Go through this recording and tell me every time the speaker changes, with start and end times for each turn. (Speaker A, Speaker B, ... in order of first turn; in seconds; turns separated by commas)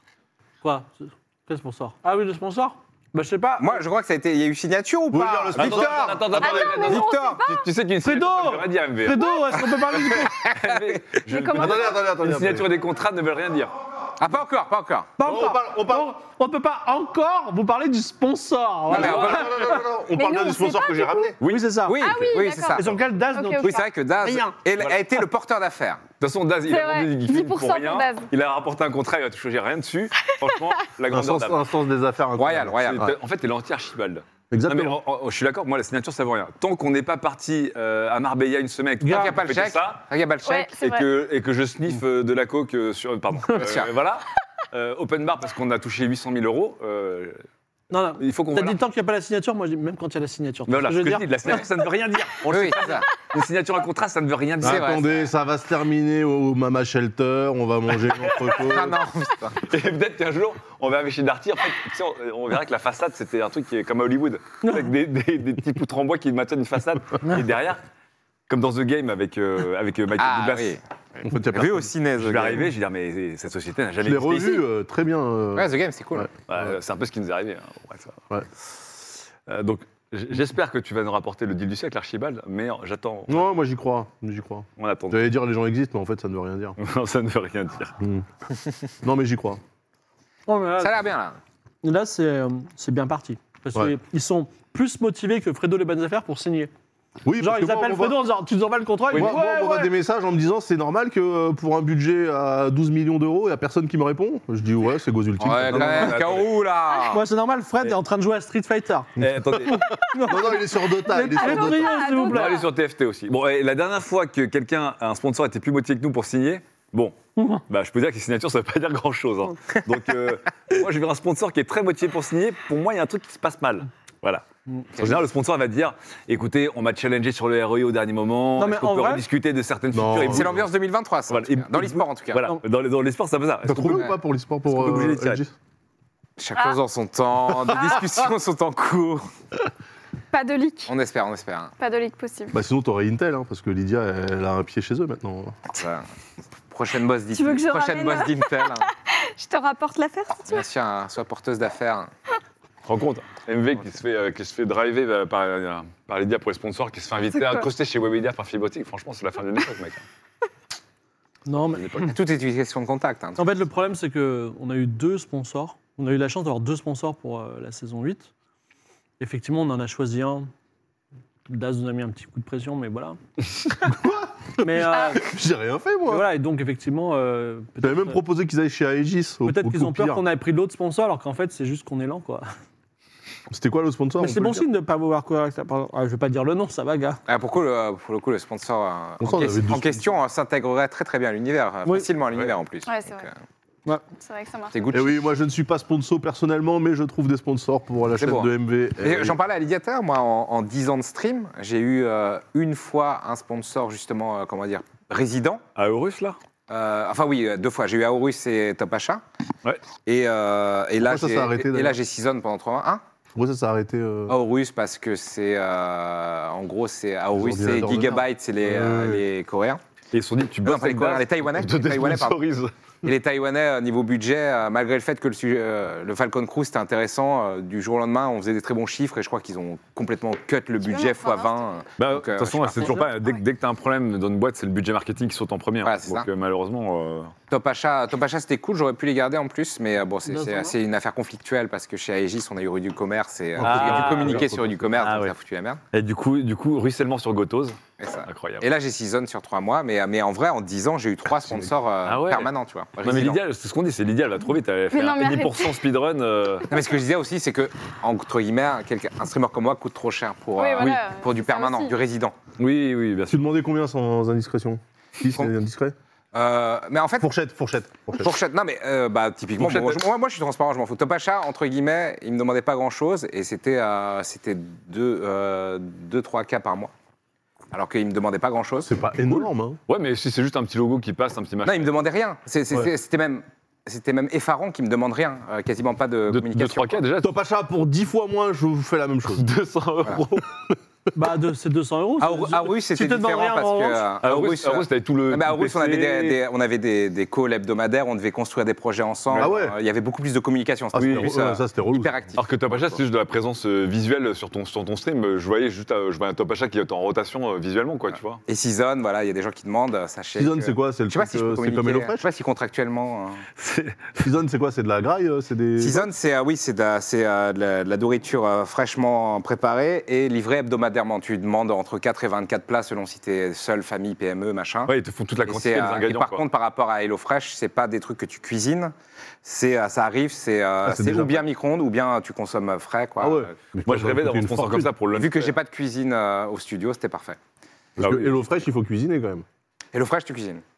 Speaker A: 0.6-3.8, Speaker B: 3.6-7.5, Speaker C: 5.1-6.7, Speaker D: 5.5-9.3, Speaker E: 6.4-7.6, Speaker A: 8.0-10.3, Speaker B: 10.1-11.2, Speaker D: 10.2-13.7, Speaker E: 11.3-11.9, Speaker C: 11.5-12.7, Speaker B: 14.2-15.1, Speaker A: 15.2-19.8, Speaker C: 15.2-16.1, Speaker B: 18.9-19.6, Speaker C: 18.9-21.4, Speaker D: 19.0-19.4, Speaker E: 20.1-21.3, Speaker D: 21.4-21.7, Speaker A: 21.4-22.1, Speaker B: 21.9-22.9, Speaker E: 22.0-23.8, Speaker A: 22.7-24.6, Speaker B: 23.6-26.0, Speaker D: 26.2-31.6, Speaker E: 26.6-28.3, Speaker C: 31.1-33.1, Speaker B: 32.3-33.1, Speaker D: 32.8-40.0, Speaker C: 34.5-35.0, Speaker A: 39.0-39.4, Speaker B: 39.0-40.7, Speaker E: 40.4-41.0, Speaker D: 40.8-47.4, Speaker B: 43.5-43.9, Speaker A: 47.9-51.6, Speaker D: 48.2-48.8, Speaker D: 50.7-55.0, Speaker B: 52.5-53.1, Speaker C: 54.6-59.0, Speaker B: 54.6-55.3, Speaker D: 58.1-58.6, Speaker B: 58.6-59.6, Speaker D: 59.6-67.8, Speaker D: 68.5-70.8, Speaker B: 70.2-70.8, Speaker C: 71.3-71.8, Speaker B: 71.3-72.7, Speaker D: 72.2-74.6, Speaker C: 74.0-76.7, Speaker B: 75.5-76.3, Speaker D: 76.5-78.2, Speaker D: 79.5-83.5, Speaker C: 83.3-86.8, Speaker D: 84.8-85.3, Speaker D: 86.8-88.0, Speaker C: 89.0-89.6, Speaker A: 90.5-90.9, Speaker B: 90.8-91.4, Speaker A: 91.8-96.7, Speaker C: 97.2-98.2, Speaker A: 97.4-99.9, Speaker C: 99.1-106.2, Speaker B: 105.4-107.2, Speaker D: 105.7-106.5, Speaker A: 106.9-109.1, Speaker D: 109.2-109.8, Speaker C: 109.2-112.0, Speaker A: 109.7-112.6, Speaker E: 111.3-112.7, Speaker D: 112.3-124.4, Speaker A: 117.4-117.6, Speaker B: 125.0-125.2, Speaker D: 125.0-130.6, Speaker A: 128.6-129.2, Speaker C: 129.9-130.5, Speaker B: 130.2-132.5, Speaker D: 131.3-134.1, Speaker C: 133.7-135.5, Speaker D: 134.6-135.4, Speaker B: 136.4-139.3, Speaker E: 137.7-138.0, Speaker E: 140.3-140.9, Speaker B: 140.9-141.7, Speaker E: 141.8-142.5, Speaker C: 142.5-145.6, Speaker B: 145.7-146.0, Speaker B: 146.7-148.9, Speaker E: 147.3-150.6, Speaker B: 150.5-152.1, Speaker D: 152.8-160.0, Speaker E: 157.3-157.6, Speaker A: 161.4-162.1, Speaker D: 161.7-162.1, Speaker B: 162.1-163.5, Speaker A: 163.4-168.3, Speaker A: 169.2-170.5, Speaker A: 171.5-173.2, Speaker C: 173.7-176.3, Speaker A: 174.6-175.2, Speaker E: 174.9-175.2, Speaker A: 176.1-178.2, Speaker C: 177.8-180.2, Speaker A: 179.4-182.5, Speaker C: 183.5-184.7, Speaker A: 184.2-187.2, Speaker B: 187.3-193.3, Speaker C: 189.2-190.1, Speaker E: 192.8-193.3, Speaker E: 194.2-194.8, Speaker B: 194.7-195.2, Speaker C: 194.9-199.3, Speaker B: 198.1-205.6, Speaker D: 205.7-206.4, Speaker B: 206.7-209.2, Speaker B: 210.1-213.0, Speaker C: 211.0-211.9, Speaker C: 213.3-214.3, Speaker B: 214.3-219.8, Speaker C: 217.3-219.2, Speaker D: 220.1-222.7, Speaker B: 220.6-222.4, Speaker B: 223.0-233.0, Speaker E: 230.8-231.6, Speaker D: 232.0-237.3, Speaker B: 235.8-236.3, Speaker B: 237.5-245.8, Speaker A: 240.3-240.8, Speaker C: 243.6-244.9, Speaker D: 243.6-245.3, Speaker D: 245.9-248.7, Speaker B: 248.0-253.4, Speaker D: 252.0-252.5, Speaker D: 253.0-256.7, Speaker E: 254.9-255.8, Speaker B: 256.7-262.4, Speaker E: 260.6-261.9, Speaker D: 262.6-263.4, Speaker C: 263.3-265.9, Speaker B: 266.3-267.3, Speaker C: 267.2-268.3, Speaker B: 268.2-276.9, Speaker D: 269.6-270.0, Speaker B: 277.7-278.9, Speaker C: 278.8-279.8, Speaker D: 279.3-281.9, Speaker B: 281.6-287.0, Speaker D: 286.3-287.3, Speaker C: 287.2-289.5, Speaker D: 289.3-290.5, Speaker A: 291.1-294.1, Speaker B: 292.2-303.0, Speaker D: 294.2-296.4, Speaker D: 299.3-299.7, Speaker C: 299.4-299.7, Speaker C: 300.9-302.2, Speaker D: 301.0-301.3, Speaker D: 302.4-308.4, Speaker B: 308.5-313.4, Speaker C: 310.4-312.2, Speaker D: 313.6-314.2, Speaker C: 314.2-316.1, Speaker B: 315.8-324.9, Speaker D: 324.9-326.4, Speaker B: 325.5-333.5, Speaker C: 330.9-331.4, Speaker C: 333.2-334.9, Speaker D: 333.9-335.5, Speaker B: 335.1-337.4, Speaker C: 338.0-339.4, Speaker D: 338.0-338.3, Speaker B: 339.9-340.6